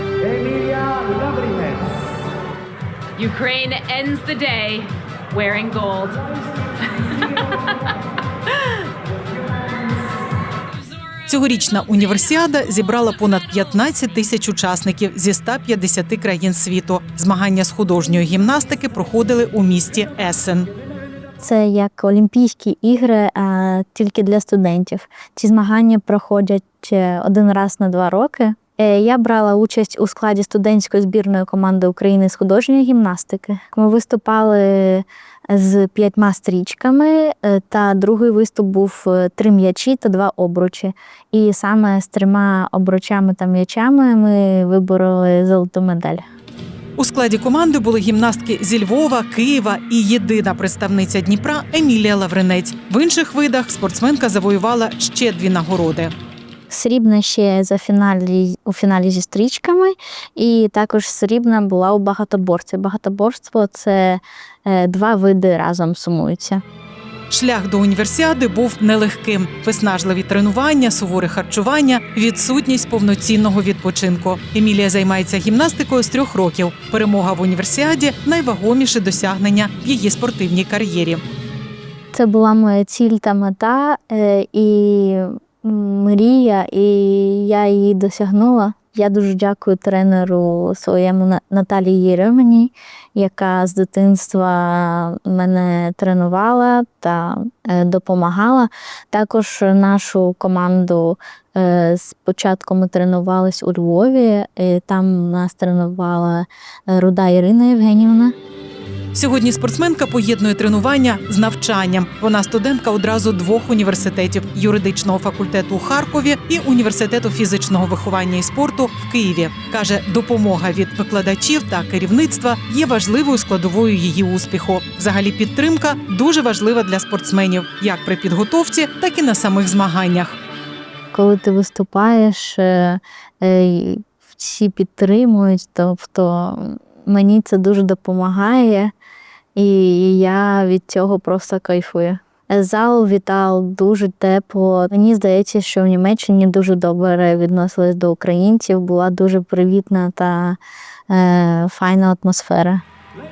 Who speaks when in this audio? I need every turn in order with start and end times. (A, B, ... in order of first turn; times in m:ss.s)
0:03.2-0:07.9 A
0:11.3-0:20.7 B
0:21.4-0:46.2 C
0:47.0-0:56.1 B
0:56.7-1:06.6 C
1:07.3-1:21.2 B
1:22.1-1:48.4 C
1:49.1-2:10.4 B
2:11.1-2:18.9 C
2:19.6-2:32.8 C